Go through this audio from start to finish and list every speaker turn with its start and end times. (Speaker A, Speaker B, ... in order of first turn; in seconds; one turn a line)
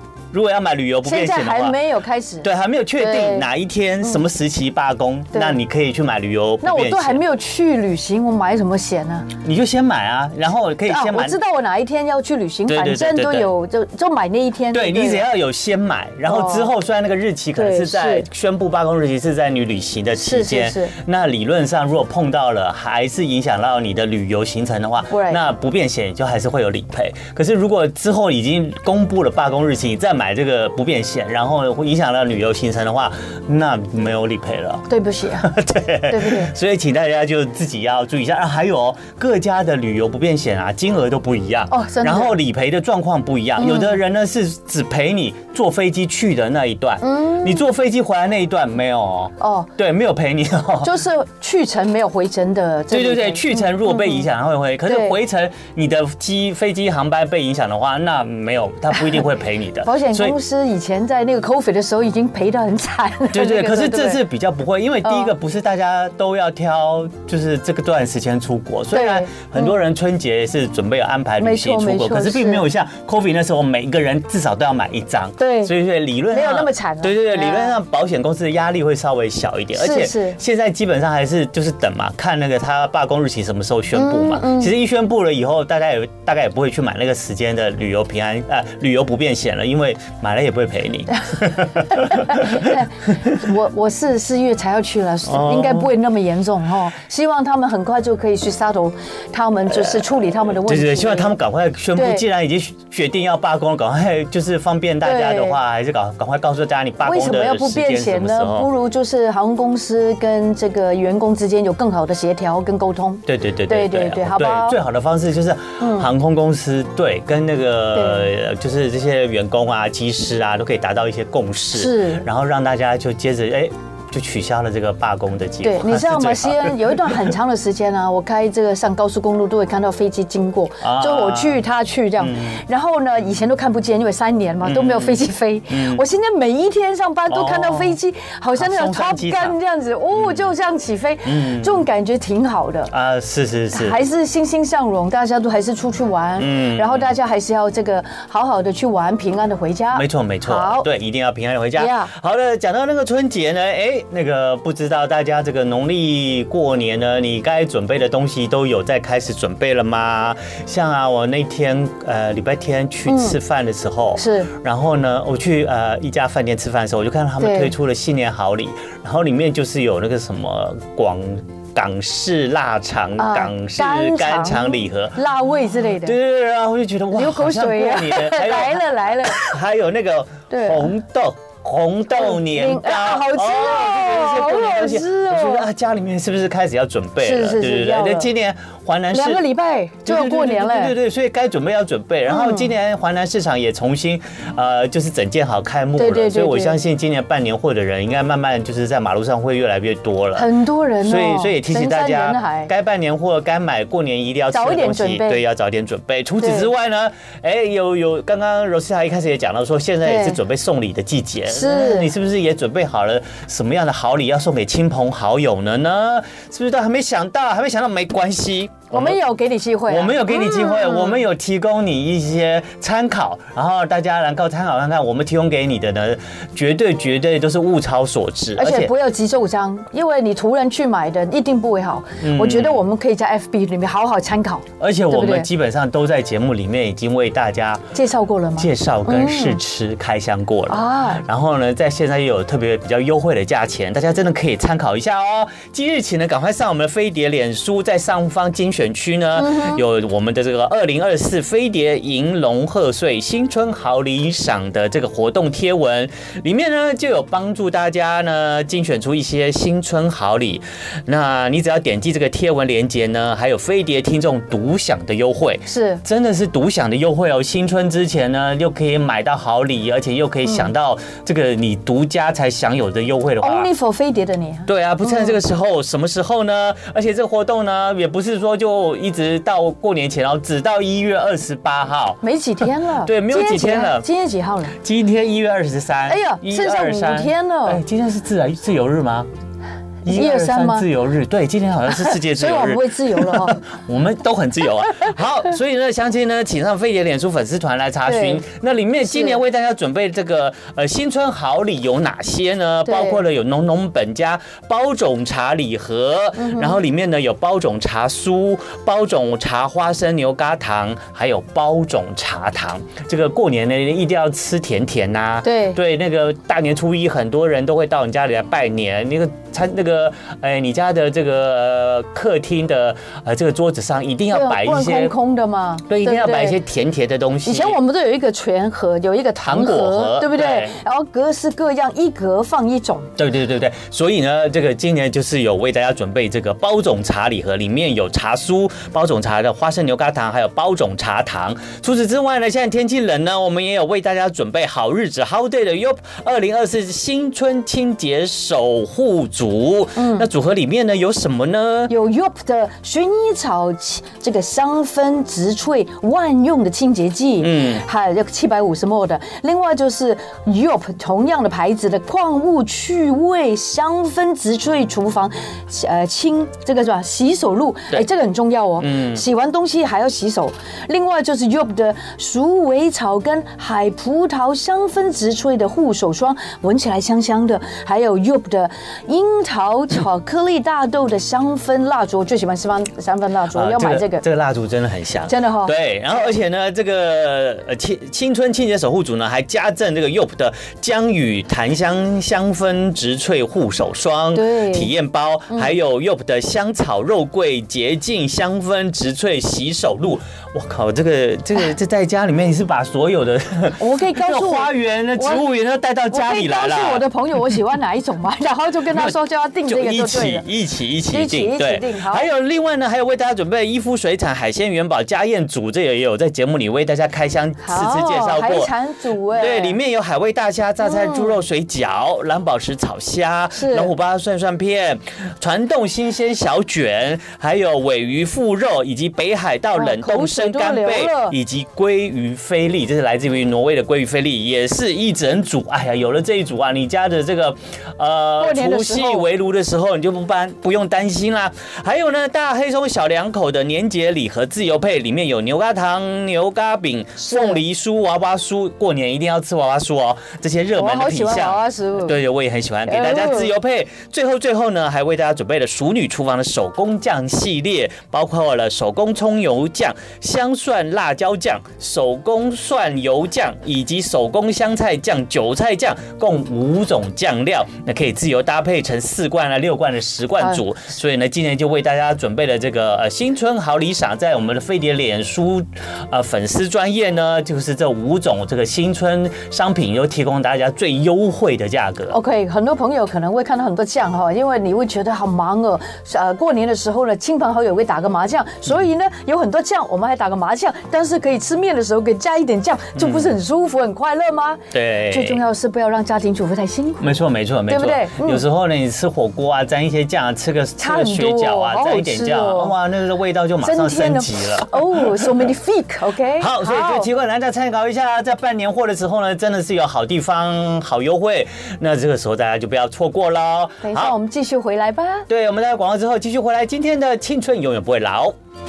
Speaker A: 0.3-1.8
Speaker B: 1.0-3.5
Speaker A: 2.4-7.2
Speaker B: 5.3-5.6
Speaker B: 6.6-9.3
Speaker A: 9.4-11.4
Speaker B: 10.8-15.2
Speaker A: 12.7-13.5
Speaker A: 14.7-50.9
Speaker B: 16.3-16.7
Speaker B: 17.6-18.2
Speaker B: 20.2-20.9
Speaker B: 25.1-25.4
Speaker B: 34.9-35.5
Speaker B: 36.1-36.5
Speaker B: 41.7-42.4
Speaker B: 43.6-44.0
Speaker B: 47.0-47.6
Speaker B: 49.4-49.7
Speaker B: 50.8-54.2
Speaker A: 52.9-60.4
Speaker B: 54.8-55.1
Speaker B: 59.8-64.2
Speaker A: 63.3-92.7
Speaker B: 65.0-65.3
Speaker B: 68.9-69.8
Speaker B: 71.4-72.7
Speaker B: 75.4-75.7
Speaker B: 76.3-77.8
Speaker B: 79.7-80.4
Speaker B: 83.9-84.7
Speaker B: 91.9-101.4
Speaker A: 95.2-95.9
Speaker A: 99.7-108.7
Speaker B: 101.9-102.2
Speaker B: 105.0-105.6
Speaker B: 107.0-114.8
Speaker A: 113.2-127.3
Speaker B: 115.8-116.1
Speaker B: 117.9-118.3
Speaker B: 121.7-122.2
Speaker B: 125.6-142.9
Speaker A: 130.8-131.6
Speaker A: 132.2-132.6
Speaker A: 134.6-136.0
Speaker A: 137.3-137.9
Speaker A: 138.6-139.6
Speaker A: 140.1-140.5
Speaker A: 141.2-141.8
Speaker A: 142.9-144.0
Speaker B: 143.7-150.9
Speaker A: 146.4-147.1
Speaker A: 149.9-175.2
Speaker B: 151.8-152.1
Speaker B: 163.1-163.3
Speaker B: 164.2-164.5
Speaker B: 167.4-167.7
Speaker B: 173.2-176.2
Speaker A: 176.0-189.5
Speaker B: 177.1-179.5
Speaker B: 180.5-180.9
Speaker B: 182.1-185.7
Speaker B: 187.2-188.3
Speaker B: 189.1-190.9
Speaker A: 190.0-200.5
Speaker B: 192.3-192.7
Speaker B: 196.0-196.8
Speaker B: 200.3-202.7
Speaker A: 201.0-219.2
Speaker B: 204.5-205.4
Speaker B: 206.4-206.7
Speaker B: 210.0-210.4
Speaker B: 211.5-212.1
Speaker B: 218.9-221.2
Speaker A: 219.9-228.9
Speaker B: 228.6-235.5
Speaker A: 232.2-232.8
Speaker A: 234.8-237.9
Speaker B: 237.9-239.6
Speaker A: 238.6-273.7
Speaker B: 240.7-241.2
Speaker B: 249.4-249.8
Speaker B: 265.7-266.0
Speaker B: 273.4-275.3
Speaker A: 274.6-282.2
Speaker B: 282.2-284.8
Speaker A: 283.0-284.1
Speaker A: 284.8-289.3
Speaker B: 286.1-287.8
Speaker A: 290.0-325.1
Speaker B: 290.1-290.9
Speaker B: 291.9-293.6
Speaker B: 298.1-298.4
Speaker B: 299.1-299.4
Speaker B: 302.8-303.2
Speaker B: 306.4-306.8
Speaker B: 315.4-315.8
Speaker B: 324.3-326.6
Speaker A: 325.9-327.8
Speaker B: 327.4-333.1
Speaker A: 329.4-330.8
Speaker A: 333.2-351.9
Speaker B: 349.9-350.3
Speaker B: 351.9-384.2
Speaker A: 357.4-357.8
Speaker A: 368.8-369.2
Speaker A: 383.5-407.0
Speaker B: 385.3-386.3
Speaker B: 394.3-394.9
Speaker B: 403.8-405.4
Speaker B: 406.1-410.5
Speaker A: 408.9-418.7
Speaker B: 411.1-412.3
Speaker B: 417.6-419.8
Speaker A: 419.3-482.2
Speaker B: 420.8-421.3
Speaker B: 423.5-423.9
Speaker B: 429.7-431.4
Speaker B: 438.4-439.3
Speaker B: 447.2-447.6
Speaker B: 450.7-452.2
Speaker B: 452.9-453.5
Speaker B: 482.1-497.1
Speaker A: 492.9-493.4
Speaker A: 494.7-495.4
Speaker A: 497.0-505.3
Speaker B: 497.7-498.4
Speaker B: 500.8-502.7
Speaker B: 503.6-507.1
Speaker A: 506.4-514.1
Speaker B: 513.8-515.3
Speaker A: 515.3-518.3